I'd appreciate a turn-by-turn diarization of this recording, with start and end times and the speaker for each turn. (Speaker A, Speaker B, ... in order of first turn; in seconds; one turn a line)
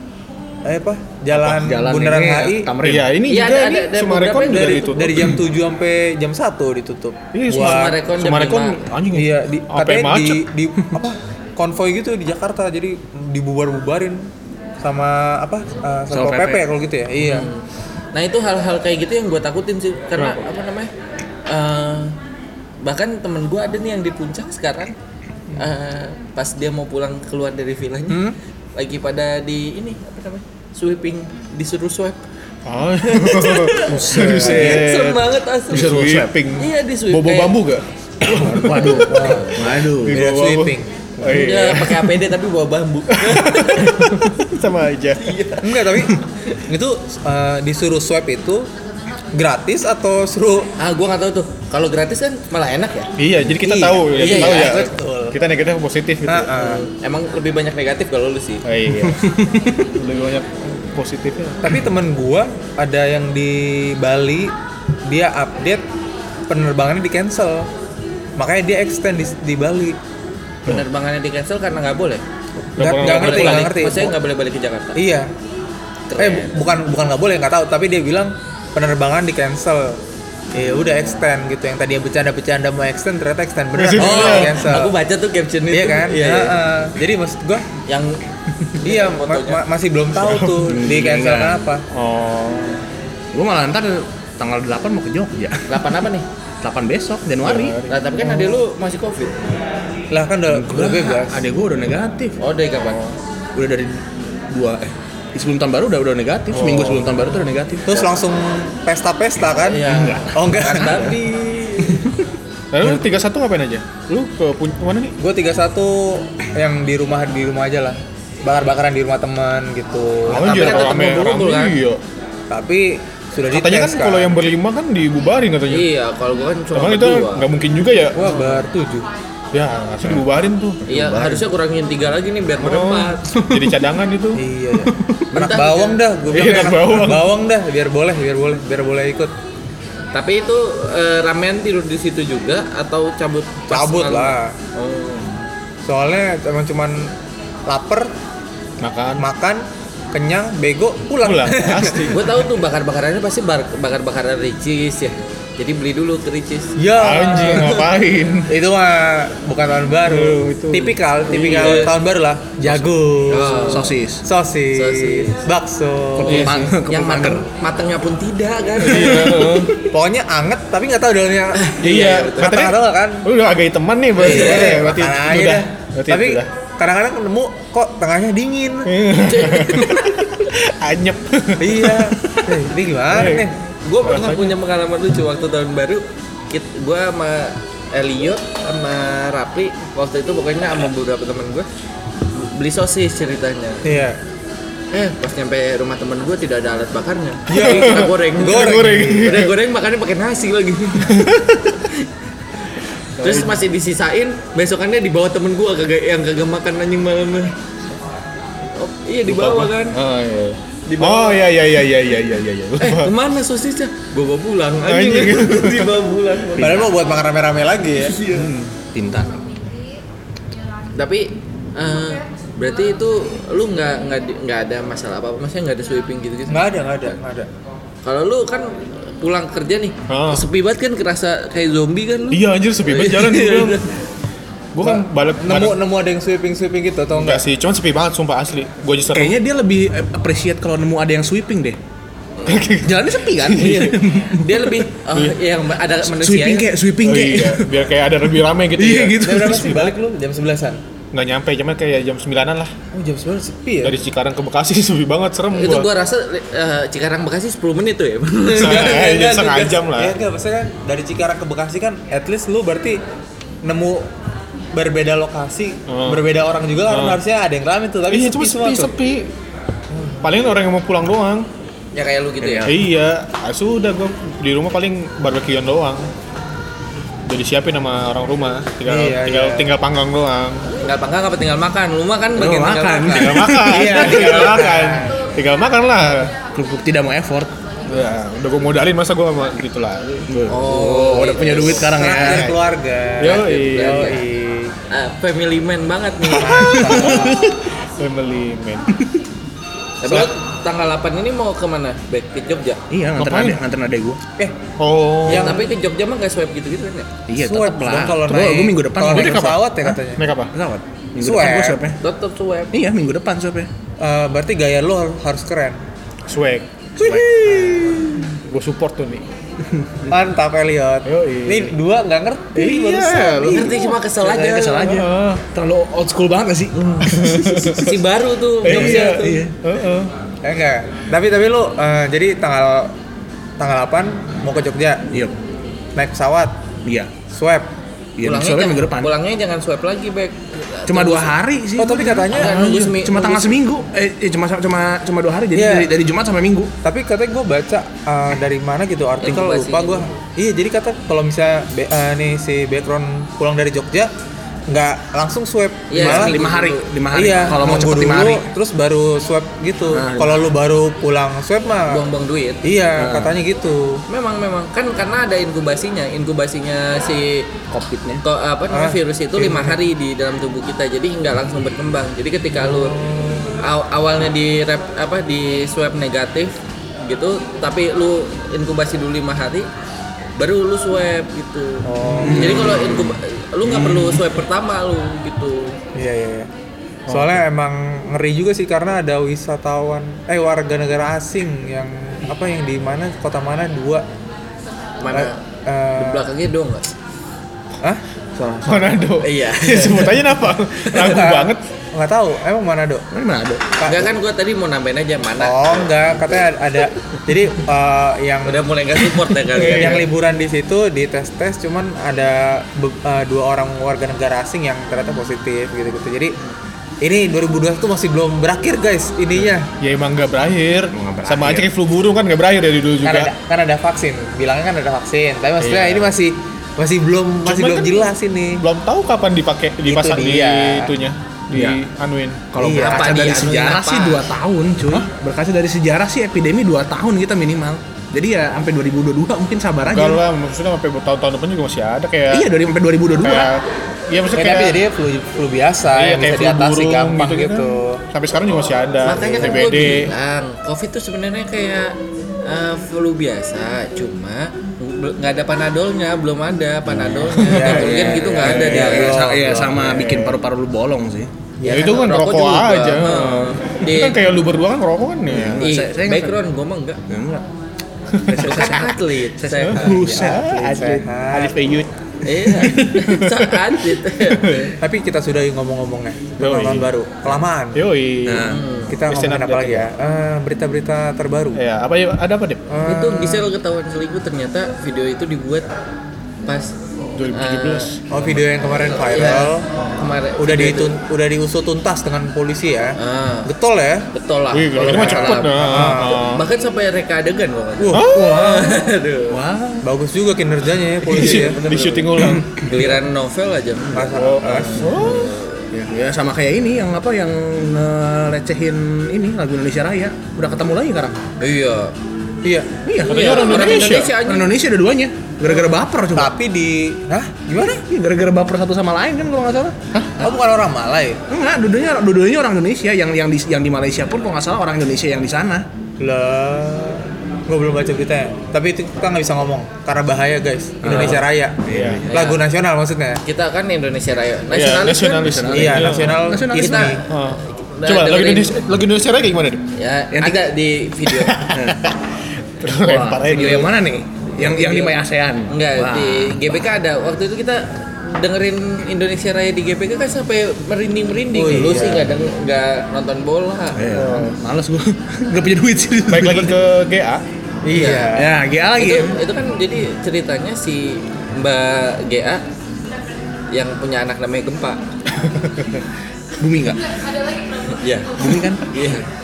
Speaker A: 0.6-2.7
Speaker B: 1.3-3.1
Speaker C: 2.8-5.4
Speaker D: 3.3-5.0
Speaker A: 4.7-8.0
Speaker C: 7.3-10.5
Speaker D: 7.5-8.8
Speaker A: 9.1-14.3
Speaker A: 14.8-17.5
Speaker B: 16.1-16.6
Speaker D: 17.2-20.9
Speaker D: 21.5-22.1
Speaker D: 22.8-24.9
Speaker D: 25.5-32.2
Speaker A: 28.1-28.4
Speaker C: 32.6-42.2
Speaker D: 33.0-37.6
Speaker B: 33.9-35.0
Speaker B: 35.7-36.3
Speaker B: 38.2-40.2
Speaker D: 38.8-39.9
Speaker A: 39.0-39.5
Speaker A: 40.1-40.9
Speaker D: 41.2-44.2
Speaker C: 43.1-45.4
Speaker D: 45.2-45.9
Speaker A: 45.6-48.7
Speaker A: 49.3-50.7
Speaker D: 50.8-53.1
Speaker C: 53.2-56.6
Speaker A: 53.5-55.4
Speaker D: 54.1-54.9
Speaker A: 56.3-56.9
Speaker D: 56.6-58.6
Speaker C: 58.6-59.2
Speaker B: 59.0-59.8
Speaker C: 59.8-61.7
Speaker A: 61.6-64.5
Speaker A: 65.0-65.8
Speaker A: 66.5-67.7
Speaker A: 68.4-70.0
Speaker D: 70.7-72.2
Speaker C: 72.7-73.8
Speaker A: 72.8-74.1
Speaker D: 73.0-75.0
Speaker A: 74.9-75.3
Speaker D: 76.1-76.5
Speaker A: 76.2-80.0
Speaker A: 80.5-85.0
Speaker C: 83.7-84.6
Speaker D: 83.9-86.6
Speaker A: 85.7-87.7
Speaker D: 87.8-88.2
Speaker D: 88.7-89.6
Speaker A: 88.8-91.8
Speaker C: 90.1-90.7
Speaker B: 90.6-91.7
Speaker C: 91.9-92.8
Speaker B: 93.3-96.0
Speaker D: 95.7-96.3
Speaker B: 96.6-97.8
Speaker C: 97.4-98.3
Speaker D: 97.9-99.5
Speaker A: 100.1-101.4
Speaker B: 100.5-103.0
Speaker D: 102.4-103.2
Speaker B: 103.5-108.0
Speaker C: 106.5-107.1
Speaker A: 107.8-111.2
Speaker D: 109.7-112.1
Speaker B: 109.8-111.2
Speaker B: 111.8-112.2
Speaker C: 112.7-115.2
Speaker A: 115.2-120.8
Speaker C: 120.3-122.0
Speaker B: 120.3-121.1
Speaker D: 120.4-121.8
Speaker A: 122.5-124.3
Speaker C: 123.5-125.9
Speaker D: 125.7-127.5
Speaker C: 126.7-128.3
Speaker A: 128.1-129.1
Speaker D: 128.3-128.6
Speaker C: 129.5-131.5
Speaker D: 130.9-133.2
Speaker C: 132.6-134.4
Speaker B: 133.3-133.8
Speaker A: 134.3-139.3
Speaker B: 134.8-135.3
Speaker D: 135.3-136.0
Speaker C: 136.3-137.3
Speaker D: 140.1-145.4
Speaker A: 143.7-144.5
Speaker A: 145.8-147.1
Speaker A: 147.7-148.1
Speaker C: 148.8-149.2
Speaker A: 149.2-152.1
Speaker C: 151.2-152.4
Speaker D: 152.0-156.7
Speaker A: 156.8-157.9
Speaker C: 156.9-158.5
Speaker A: 158.5-166.7
Speaker C: 160.0-161.8
Speaker D: 161.3-161.9
Speaker D: 163.3-163.9
Speaker B: 163.7-164.2
Speaker D: 164.7-165.4
Speaker B: 166.2-167.5
Speaker C: 166.3-166.7
Speaker D: 166.3-169.7
Speaker C: 168.8-169.7
Speaker B: 168.9-169.6
Speaker A: 169.9-171.8
Speaker D: 171.5-172.6
Speaker C: 171.8-176.5
Speaker A: 172.3-173.2
Speaker A: 174.2-178.9
Speaker D: 174.2-174.8
Speaker C: 178.8-182.0
Speaker D: 179.1-180.3
Speaker A: 181.6-183.6
Speaker C: 183.1-183.5
Speaker D: 183.8-191.7
Speaker C: 184.0-184.6
Speaker D: 192.3-193.8
Speaker A: 193.8-194.2
Speaker D: 194.9-201.3
Speaker A: 197.5-199.4
Speaker C: 197.5-199.5
Speaker C: 201.0-201.6
Speaker D: 203.2-207.5
Speaker C: 203.2-203.6
Speaker D: 208.7-210.0
Speaker C: 209.3-213.1
Speaker D: 210.9-211.5
Speaker D: 212.8-216.9
Speaker C: 214.8-216.0
Speaker A: 216.6-218.2
Speaker B: 216.6-216.9
Speaker D: 218.0-218.5
Speaker B: 218.3-219.4
Speaker D: 220.9-227.2
Speaker A: 226.5-227.5
Speaker D: 228.0-234.0
Speaker C: 230.1-230.5
Speaker C: 232.3-233.8
Speaker C: 234.7-235.8
Speaker A: 234.8-237.4
Speaker C: 237.1-239.4
Speaker B: 239.1-241.8
Speaker C: 242.4-243.0
Speaker B: 242.7-244.8
Speaker D: 243.5-246.7
Speaker B: 246.0-247.7
Speaker C: 247.0-249.9
Speaker B: 248.8-249.9
Speaker A: 249.2-250.8
Speaker C: 251.1-252.7
Speaker A: 252.9-253.9
Speaker C: 253.8-255.9
Speaker D: 255.5-259.8
Speaker C: 258.5-260.2
Speaker A: 259.9-263.0
Speaker A: 263.6-264.1
Speaker A: 264.7-268.9
Speaker C: 265.9-266.2
Speaker C: 266.9-267.2
Speaker C: 268.1-269.3
Speaker A: 269.9-270.2
Speaker C: 270.2-271.5
Speaker D: 271.9-272.8
Speaker B: 272.4-272.7
Speaker C: 272.6-276.1
Speaker C: 277.2-280.7
Speaker A: 278.9-279.7
Speaker D: 280.8-283.5
Speaker B: 282.4-284.7
Speaker C: 283.1-286.3
Speaker A: 283.7-285.2
Speaker B: 286.5-287.5
Speaker C: 287.9-290.3
Speaker B: 290.3-292.5
Speaker D: 290.5-291.9
Speaker A: 291.9-294.7
Speaker C: 292.1-292.6
Speaker C: 293.2-294.1
Speaker D: 293.2-294.2
Speaker D: 294.9-296.9
Speaker A: 296.3-297.4
Speaker B: 296.5-297.5
Speaker C: 297.0-298.9
Speaker B: 298.9-299.2
Speaker D: 300.0-302.8
Speaker C: 300.0-300.3
Speaker B: 302.9-304.2
Speaker C: 303.1-303.6
Speaker C: 304.8-305.6
Speaker A: 305.2-305.7
Speaker D: 305.3-307.1
Speaker B: 307.3-310.0
Speaker A: 307.3-310.2
Speaker C: 310.1-310.5
Speaker B: 310.5-312.0
Speaker A: 311.2-311.8
Speaker D: 312.0-312.7
Speaker B: 312.7-313.7
Speaker A: 314.0-315.8
Speaker C: 316.3-319.2
Speaker B: 317.0-317.2
Speaker A: 317.4-318.2
Speaker B: 319.7-320.1
Speaker A: 320.1-323.5
Speaker C: 321.1-321.7
Speaker C: 322.6-323.9
Speaker B: 323.3-327.9
Speaker D: 323.4-325.1
Speaker C: 324.9-325.4
Speaker D: 327.2-329.4
Speaker C: 327.2-327.9
Speaker C: 328.6-330.1
Speaker B: 328.6-329.8
Speaker A: 330.4-332.9
Speaker A: 333.6-335.0
Speaker A: 335.9-336.6
Speaker B: 336.8-337.1
Speaker A: 337.3-337.7
Speaker B: 338.2-339.1
Speaker D: 338.2-341.3
Speaker B: 340.9-346.7
Speaker A: 341.8-342.7
Speaker D: 342.3-343.6
Speaker A: 345.5-345.9
Speaker A: 346.8-354.1
Speaker D: 349.2-350.1
Speaker A: 354.7-356.4
Speaker D: 355.9-356.9
Speaker B: 355.9-358.5
Speaker A: 357.1-362.0
Speaker B: 359.9-360.5
Speaker D: 361.9-362.7
Speaker A: 362.6-364.0
Speaker B: 362.9-363.4
Speaker D: 364.1-367.5
Speaker B: 367.7-368.2
Speaker D: 368.2-373.0
Speaker A: 368.7-369.8
Speaker A: 372.6-373.6
Speaker D: 373.6-379.7
Speaker D: 380.4-385.8
Speaker A: 381.8-382.8
Speaker C: 382.1-382.6
Speaker B: 382.2-384.3
Speaker A: 385.9-386.5
Speaker A: 387.1-394.0
Speaker C: 387.1-387.4
Speaker D: 395.0-395.4
Speaker A: 395.1-396.3
Speaker D: 395.9-396.9
Speaker B: 398.4-399.0
Speaker C: 398.6-401.6
Speaker D: 399.2-400.2
Speaker D: 400.8-401.2
Speaker A: 401.0-403.0
Speaker B: 403.1-403.7
Speaker A: 403.8-404.1
Speaker D: 403.8-406.4
Speaker A: 405.4-408.7
Speaker D: 408.4-410.1
Speaker A: 409.5-416.4
Speaker C: 409.6-410.0
Speaker A: 417.0-419.7
Speaker C: 419.8-423.3
Speaker B: 420.9-421.7
Speaker A: 423.0-428.6
Speaker C: 425.6-426.1
Speaker C: 427.4-432.5
Speaker A: 429.9-430.9
Speaker B: 431.5-431.8
Speaker B: 432.5-440.2
Speaker A: 432.6-433.1
Speaker D: 432.7-434.3
Speaker C: 439.9-442.5
Speaker B: 442.3-443.5
Speaker C: 443.2-444.8
Speaker A: 444.3-448.0
Speaker C: 445.9-450.1
Speaker D: 449.0-459.2
Speaker B: 456.9-461.3
Speaker C: 457.3-457.9
Speaker A: 457.4-459.8
Speaker C: 458.4-460.4
Speaker A: 461.6-462.0
Speaker D: 461.6-464.2
Speaker C: 461.6-465.7
Speaker B: 465.3-466.4
Speaker D: 465.6-467.0
Speaker B: 467.1-467.4
Speaker C: 468.1-468.7
Speaker B: 468.2-471.0
Speaker D: 468.4-470.1
Speaker C: 469.6-474.6
Speaker A: 469.8-471.6
Speaker D: 472.2-474.7
Speaker A: 474.8-477.8
Speaker C: 476.4-476.9
Speaker C: 477.7-479.9
Speaker B: 478.2-478.6
Speaker D: 478.4-479.0
Speaker A: 478.9-481.6
Speaker C: 481.5-482.6
Speaker A: 482.7-483.5
Speaker D: 482.9-485.6
Speaker D: 486.4-486.7
Speaker C: 487.1-488.2
Speaker D: 487.3-487.9
Speaker A: 488.1-489.7
Speaker D: 489.0-490.9
Speaker A: 490.4-494.1
Speaker D: 493.0-493.5
Speaker D: 494.1-499.4
Speaker C: 494.5-496.4
Speaker A: 494.8-496.2
Speaker A: 497.9-498.6
Speaker C: 497.9-498.7
Speaker B: 499.3-499.9
Speaker A: 499.8-501.6
Speaker B: 501.1-501.5
Speaker C: 501.1-502.9
Speaker D: 501.1-505.7
Speaker B: 502.2-502.5
Speaker A: 503.9-505.0
Speaker C: 504.1-505.3
Speaker B: 505.7-511.2
Speaker D: 511.4-511.9
Speaker A: 512.4-512.7
Speaker B: 512.8-516.3
Speaker C: 513.0-514.1
Speaker D: 513.0-514.5
Speaker A: 516.1-517.8
Speaker B: 517.9-520.1
Speaker A: 520.2-521.2
Speaker B: 521.3-525.6
Speaker A: 526.0-533.2
Speaker B: 530.8-532.1
Speaker C: 530.9-532.0
Speaker D: 532.1-532.4
Speaker D: 533.2-535.4
Speaker C: 534.5-536.3
Speaker B: 535.2-537.0
Speaker A: 535.5-537.0
Speaker D: 536.5-538.6
Speaker C: 537.1-539.6
Speaker D: 539.7-541.4
Speaker B: 540.1-540.4
Speaker C: 541.1-542.0
Speaker B: 541.5-541.8
Speaker C: 542.6-543.7
Speaker B: 542.8-546.6
Speaker D: 543.3-543.7
Speaker D: 544.3-545.0
Speaker D: 545.5-553.8
Speaker A: 551.3-552.2
Speaker B: 553.7-556.6
Speaker C: 553.9-554.3
Speaker C: 556.1-557.2
Speaker A: 557.6-558.4
Speaker D: 557.7-558.1
Speaker B: 558.1-559.2
Speaker D: 558.8-562.4
Speaker D: 563.5-564.8
Speaker B: 566.4-566.8
Speaker D: 567.6-569.0
Speaker B: 568.2-569.0